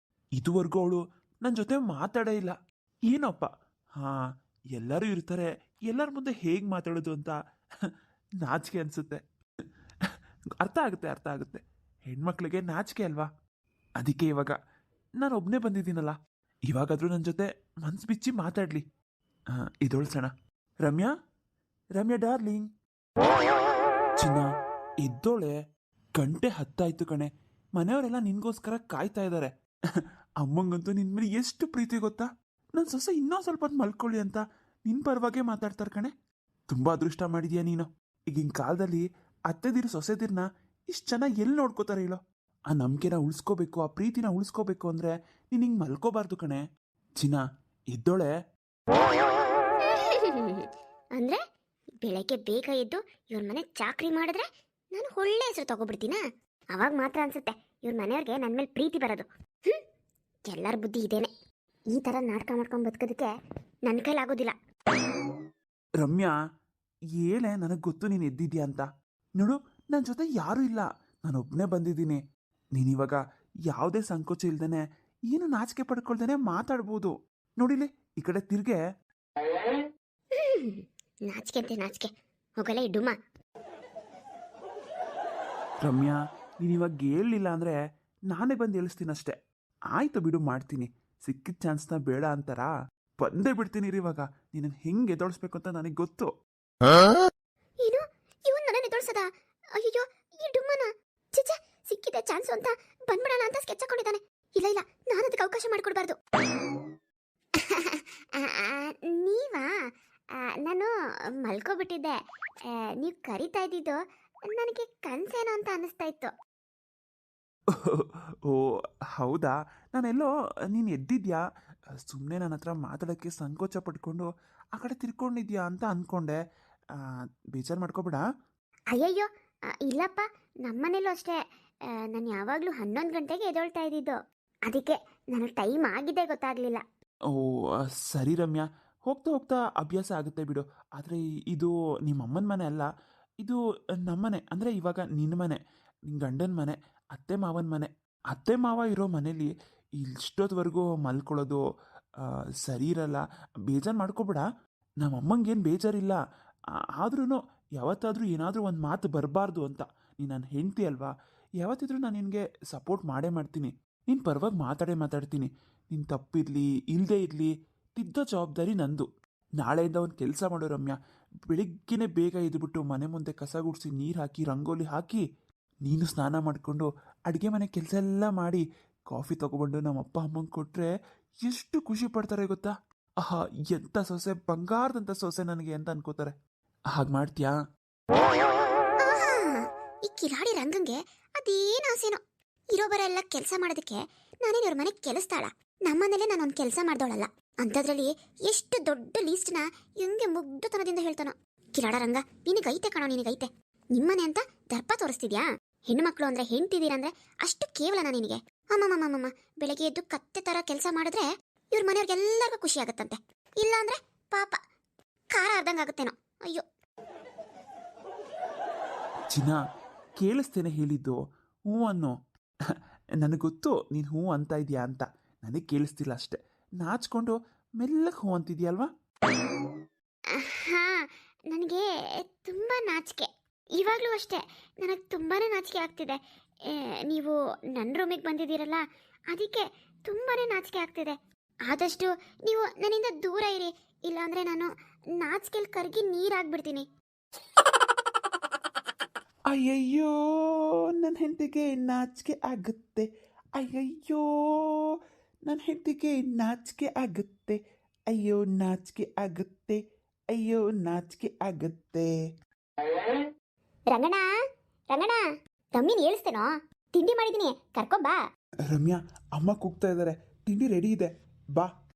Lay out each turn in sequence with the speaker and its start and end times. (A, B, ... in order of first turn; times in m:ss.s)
0:00.3-0:02.6 A
0:03.1-0:04.2 A
0:04.7-0:07.3 A
0:08.4-0:09.2 A
0:10.6-0:13.3 A
0:14.0-0:14.6 A
0:15.2-0:16.1 A
0:16.7-0:18.8 A
0:19.5-0:21.1 A
0:22.0-0:22.7 A
0:24.2-0:24.4 A
0:25.0-0:25.5 A
0:26.2-0:29.5 A
0:30.4-0:36.1 A
0:36.7-0:46.6 A
0:47.2-0:48.3 A
0:49.9-0:51.4 B
0:52.0-0:56.2 B
0:56.7-0:59.8 B
1:00.5-1:01.3 B
1:01.9-1:03.3 B
1:03.9-1:04.5 B
1:06.0-1:06.3 A
1:07.2-1:08.9 A
1:09.4-1:12.2 A
1:12.7-1:18.8 A
1:20.4-1:23.1 B
1:25.8-1:27.8 A
1:28.3-1:29.4 A
1:29.9-1:36.3 A
1:37.8-1:46.2 B
1:47.6-1:49.7 B
1:50.3-1:50.9 B
1:51.4-1:56.3 B
1:57.8-1:58.6 A
1:59.2-2:01.4 A
2:02.1-2:06.4 A
2:07.5-2:08.2 A
2:08.9-2:09.3 B
2:09.8-2:11.4 B
2:12.1-2:16.8 B
2:18.1-2:22.8 A
2:23.4-2:31.6 A
2:32.6-2:34.4 A
2:35.0-2:36.2 A
2:37.0-2:49.1 A
2:49.6-2:51.0 A
2:51.5-2:55.2 A
2:55.8-3:00.9 A
3:01.4-3:06.3 A
3:06.9-3:07.5 A
3:09.0-3:12.2 B
3:12.7-3:34.6 B
3:35.3-3:36.6 B
3:39.3-3:39.6 A
3:40.2-3:41.2 A
3:41.7-3:42.2 A
3:43.2-3:48.9 A
3:50.3-4:01.2 B
4:01.7-4:06.9 B
4:09.5-4:14.8 A
4:15.4-4:17.6 A
4:18.1-4:19.8 A
4:20.3-4:22.1 A
4:23.9-4:24.2 B
4:24.9-4:25.2 B
4:25.7-4:28.2 B
4:28.7-4:31.7 A